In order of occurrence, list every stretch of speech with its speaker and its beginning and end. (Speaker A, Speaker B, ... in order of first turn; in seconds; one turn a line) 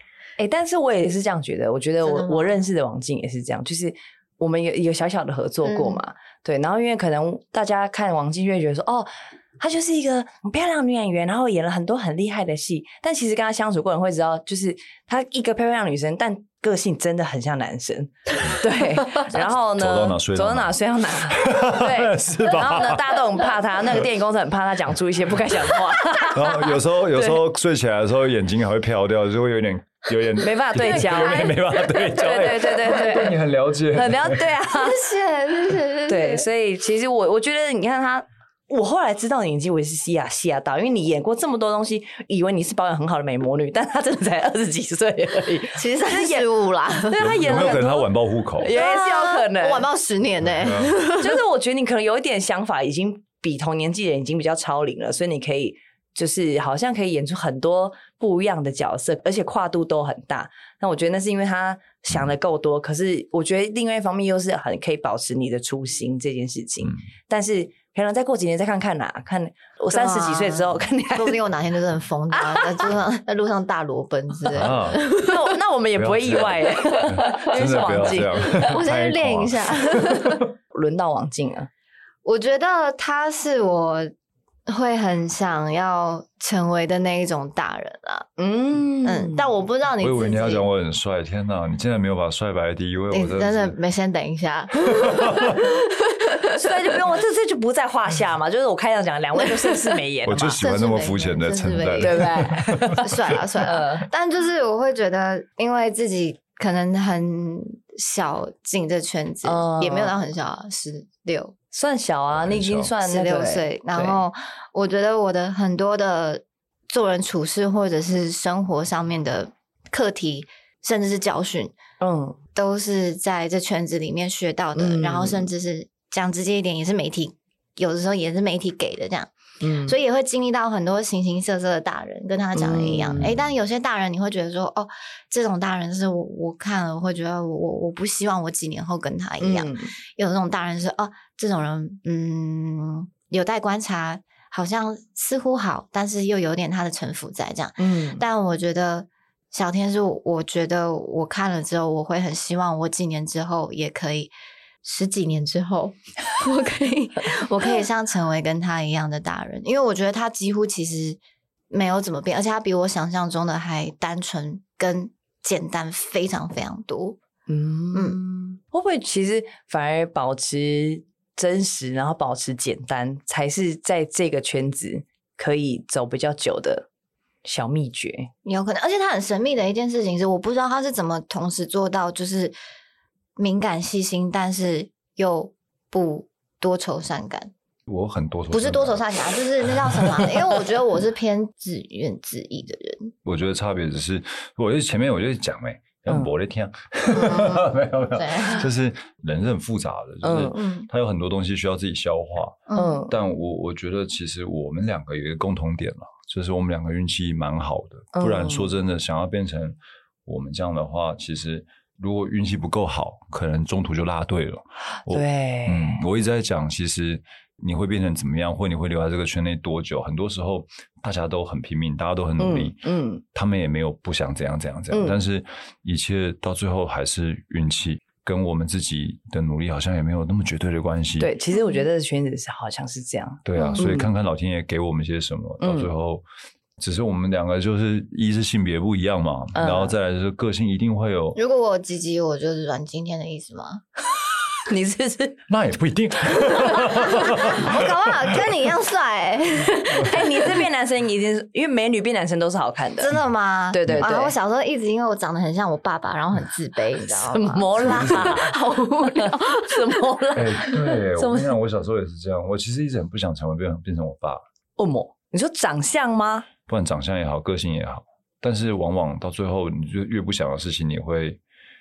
Speaker A: 0.4-27.4
Speaker B: 2.0-2.5
Speaker B: 5.6-6.0
Speaker C: 19.3-23.4
Speaker C: 26.2-34.5
Speaker A: 30.4-33.4
Speaker A: 33.9-35.1
Speaker B: 34.7-36.5
Speaker A: 36.1-46.5
Speaker B: 45.8-47.8
Speaker A: 47.0-49.9
Speaker C: 47.2-48.7
Speaker B: 48.7-51.4
Speaker C: 50.6-50.9
Speaker A: 51.1-71.4
Speaker B: 69.9-75.5
Speaker A: 72.3-72.9
Speaker C: 74.5-75.0
Speaker A: 75.1-78.7
Speaker C: 75.9-80.2
Speaker B: 78.4-80.5
Speaker A: 80.7-81.7
Speaker B: 82.2-84.1
Speaker B: 84.7-88.3
Speaker A: 88.4-89.5
Speaker B: 89.0-90.7
Speaker C: 90.0-93.8
Speaker B: 93.1-96.9
Speaker C: 95.0-95.6
Speaker A: 96.5-100.6
Speaker C: 100.2-103.1
Speaker B: 100.6-111.5
Speaker A: 102.0-103.1
Speaker A: 103.6-104.1
Speaker A: 109.4-110.1
Speaker A: 111.7-114.2
Speaker C: 112.3-112.9
Speaker B: 113.0-121.8
Speaker A: 122.0-122.4
Speaker B: 122.5-129.3
Speaker A: 124.7-125.5
Speaker A: 129.6-130.0
Speaker B: 129.8-154.3
Speaker A: 132.5-133.3
Speaker C: 133.2-133.4
Speaker A: 139.4-139.9
Speaker A: 147.8-148.2
Speaker B: 154.8-161.2
Speaker B: 161.7-167.2
Speaker A: 167.5-176.9
Speaker B: 167.9-168.2
Speaker A: 177.4-178.3
Speaker B: 178.4-182.5
Speaker B: 183.4-187.5
Speaker C: 187.9-190.6
Speaker B: 188.5-193.1
Speaker C: 193.2-231.3
Speaker B: 197.1-198.7
Speaker A: 200.2-200.6
Speaker B: 200.5-200.9
Speaker B: 202.7-203.0
Speaker A: 202.7-203.1
Speaker A: 208.1-208.7
Speaker A: 215.1-216.0
Speaker A: 222.4-223.2
Speaker A: 224.9-225.2
Speaker A: 231.2-234.1
Speaker B: 231.5-231.8
Speaker C: 233.4-236.2
Speaker B: 233.6-233.9
Speaker A: 235.6-235.9
Speaker C: 236.8-241.4
Speaker A: 239.5-239.9
Speaker B: 241.3-243.8
Speaker A: 244.7-245.4
Speaker C: 245.5-248.5
Speaker B: 246.8-250.6
Speaker A: 250.0-253.1
Speaker B: 253.0-260.0
Speaker A: 253.7-254.3
Speaker A: 257.1-261.6
Speaker C: 257.8-258.4
Speaker C: 260.3-264.4
Speaker A: 264.8-266.5
Speaker C: 266.7-271.4